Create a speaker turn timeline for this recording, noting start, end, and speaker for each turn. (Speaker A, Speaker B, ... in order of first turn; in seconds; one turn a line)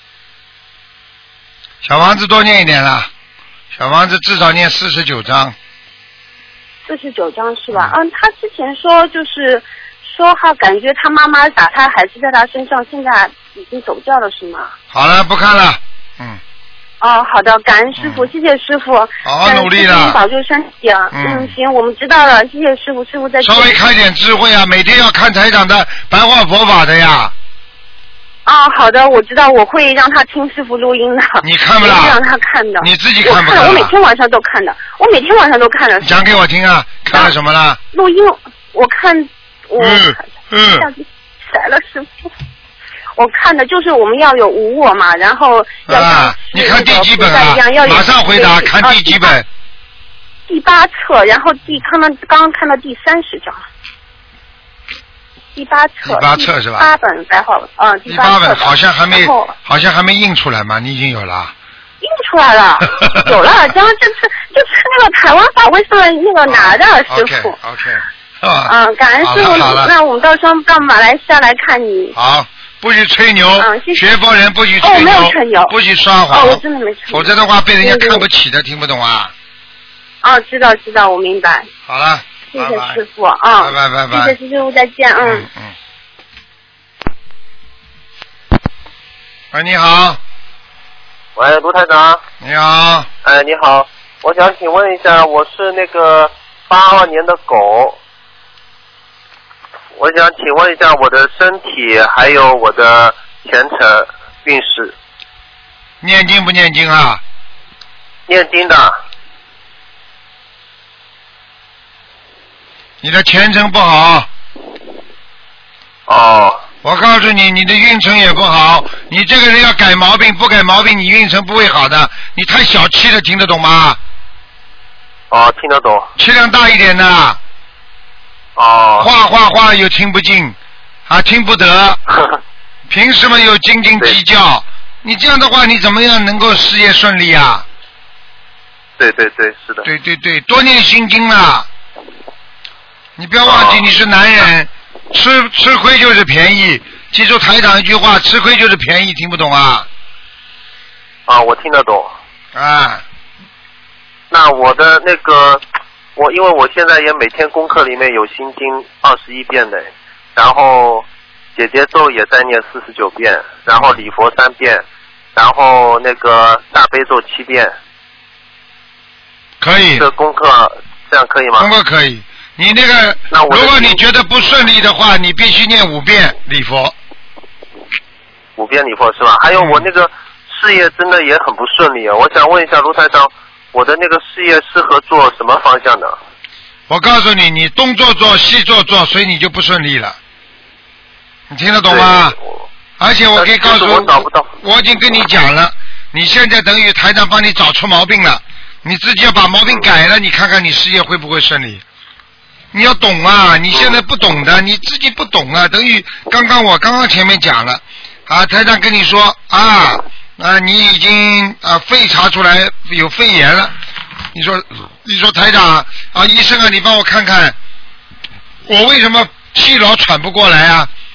Speaker A: 1.8-3.1
Speaker A: 3.7-5.6
Speaker B: 6.9-14.7
Speaker A: 14.9-16.4
Speaker B: 17.0-23.8
Speaker A: 18.0-18.3
Speaker A: 19.2-20.2
Speaker A: 21.1-21.5
Speaker A: 23.4-27.3
Speaker B: 28.5-36.2
Speaker A: 31.4-32.2
Speaker A: 32.8-33.9
Speaker A: 36.0-37.8
Speaker B: 37.9-42.3
Speaker A: 39.8-40.9
Speaker B: 43.2-49.4
Speaker A: 45.9-49.5
Speaker B: 50.5-53.6
Speaker B: 55.5-59.5
Speaker A: 56.0-56.9
Speaker A: 58.1-61.5
Speaker B: 62.0-67.6
Speaker A: 62.9-63.3
Speaker A: 66.5-69.9
Speaker B: 68.7-72.2
Speaker A: 72.2-79.3
Speaker B: 73.6-74.0
Speaker B: 74.8-75.7
Speaker B: 76.3-78.2
Speaker B: 80.2-81.7
Speaker A: 81.9-83.0
Speaker B: 82.5-85.5
Speaker A: 83.6-84.3
Speaker A: 85.2-85.8
Speaker A: 89.5-90.2
Speaker C: 91.4-92.2
Speaker A: 92.4-93.1
Speaker C: 93.2-98.0
Speaker C: 100.0-104.9
Speaker A: 106.0-107.2
Speaker C: 108.3-109.0
Speaker A: 113.0-114.3
Speaker C: 116.1-116.6
Speaker A: 116.8-124.0
Speaker C: 125.3-126.1
Speaker A: 126.2-127.4
Speaker C: 128.6-129.1
Speaker A: 129.0-130.6
Speaker A: 131.1-132.0
Speaker A: 132.9-137.7
Speaker C: 139.0-139.9
Speaker A: 139.8-141.7
Speaker A: 143.2-149.9
Speaker C: 143.4-143.8
Speaker C: 151.3-152.1
Speaker A: 152.5-153.0
Speaker C: 154.3-155.6
Speaker C: 156.2-164.8
Speaker C: 165.3-167.7
Speaker A: 169.6-170.1
Speaker C: 170.0-171.7
Speaker A: 171.6-176.9
Speaker C: 173.3-174.0
Speaker C: 178.6-186.2
Speaker A: 179.6-179.9
Speaker A: 186.9-190.2
Speaker A: 191.5-192.4
Speaker C: 191.9-192.7
Speaker A: 193.0-201.8
Speaker C: 193.3-194.5
Speaker A: 202.7-213.7
Speaker C: 203.7-204.0
Speaker A: 214.3-217.6
Speaker A: 218.7-220.9